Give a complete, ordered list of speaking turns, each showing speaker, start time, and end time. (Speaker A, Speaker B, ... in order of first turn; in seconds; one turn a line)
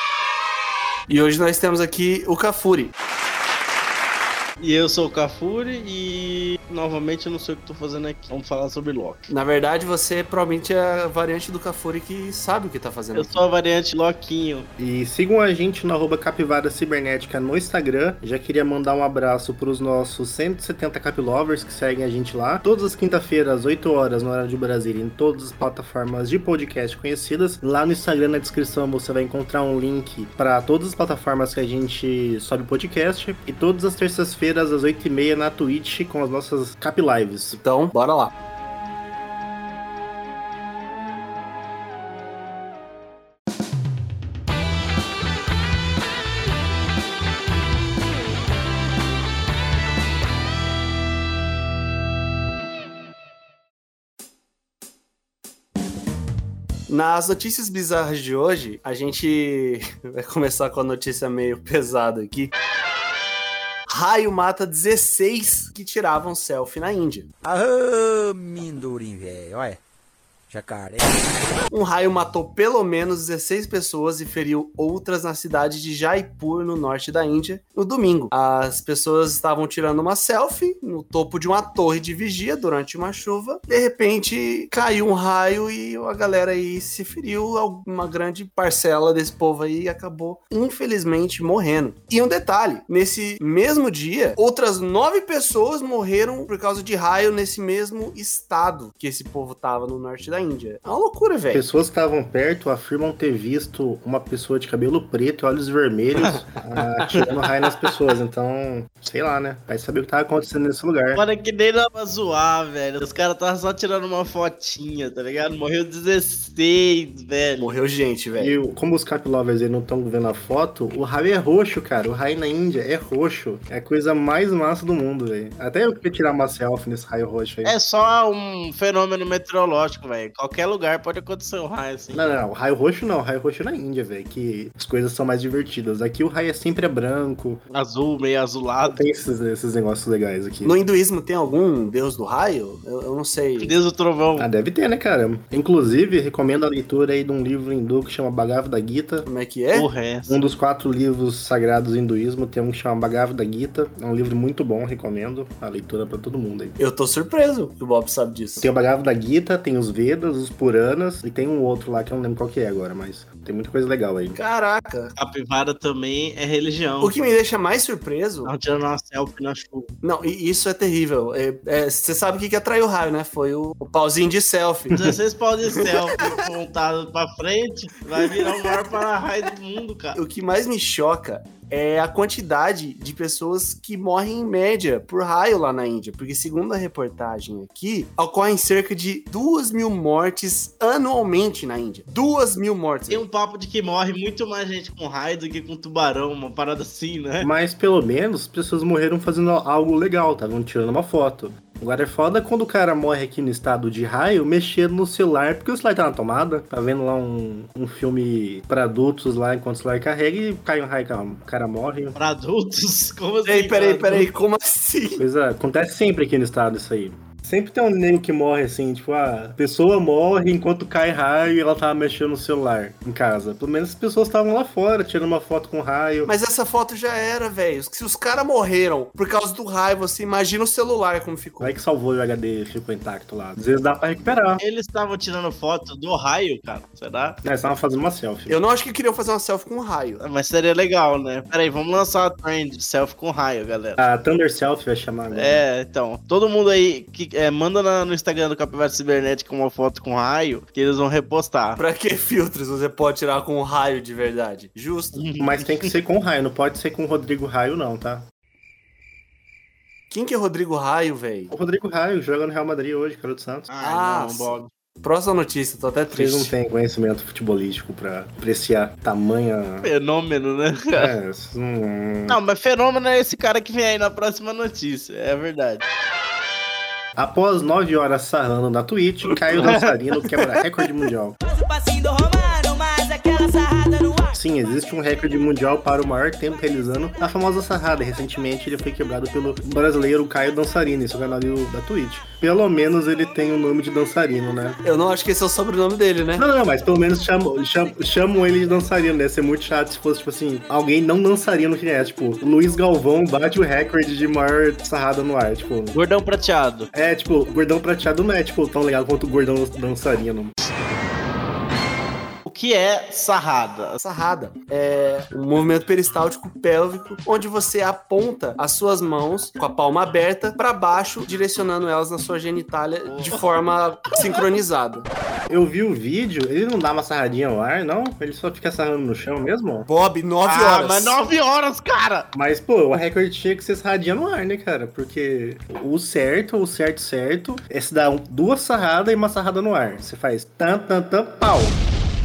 Speaker A: 1.1-2.9
Speaker B: 4.6-9.3
Speaker A: 9.3-13.4
Speaker B: 13.1-14.7
Speaker C: 14.8-37.6
Speaker A: 37.6-38.3
Speaker A: 56.9-62.5
Speaker A: 63.9-67.3
Speaker D: 67.4-69.8
Speaker D: 70.5-71.3
Speaker A: 71.7-101.6
Speaker C: 101.5-111.2
Speaker B: 111.1-117.7
Speaker A: 117.6-118.5
Speaker C: 118.4-127.8
Speaker B: 127.6-132.4
Speaker C: 132.1-137.6
Speaker B: 137.7-139.1
Speaker C: 138.8-140.8
Speaker A: 140.6-143.7
Speaker B: 143.6-144.5
Speaker C: 144.4-149.3
Speaker A: 149.2-149.9
Speaker B: 149.7-150.4
Speaker C: 150.3-156.8
Speaker A: 156.8-158.7
Speaker C: 158.6-164.4
Speaker A: 164.3-165.1
Speaker B: 165.2-167.1
Speaker A: 167.0-168.5
Speaker B: 168.4-169.9
Speaker A: 170.0-174.9
Speaker B: 174.9-180.2
Speaker A: 175.7-176.3
Speaker A: 178.2-178.9
Speaker A: 180.1-193.2
Speaker B: 193.1-197.5
Speaker C: 197.4-212.2
Speaker B: 212.1-214.3
Speaker A: 213.4-215.2
Speaker C: 215.2-226.3
Speaker A: 226.2-231.7
Speaker C: 231.6-234.6
Speaker B: 234.6-237.4
Speaker C: 237.4-238.6
Speaker A: 238.5-240.2
Speaker B: 240.2-244.0
Speaker C: 244.0-245.7
Speaker B: 245.3-251.8
Speaker A: 251.8-255.2
Speaker B: 255.1-255.9
Speaker C: 255.4-258.2
Speaker A: 260.1-261.5
Speaker C: 261.5-263.7
Speaker B: 263.7-264.7
Speaker A: 263.8-266.5
Speaker C: 266.1-269.9
Speaker B: 269.8-271.1
Speaker C: 270.9-272.4
Speaker B: 272.3-275.8
Speaker C: 277.1-281.4
Speaker B: 279.3-279.9
Speaker E: 281.4-284.4
Speaker C: 284.3-294.8
Speaker A: 294.8-296.4
Speaker C: 296.4-306.0
Speaker B: 305.9-306.9
Speaker C: 306.9-310.5
Speaker B: 312.4-314.0
Speaker A: 314.0-325.1
Speaker B: 323.1-323.4
Speaker C: 325.5-329.9
Speaker A: 329.9-331.2
Speaker B: 330.4-332.3
Speaker C: 332.3-341.8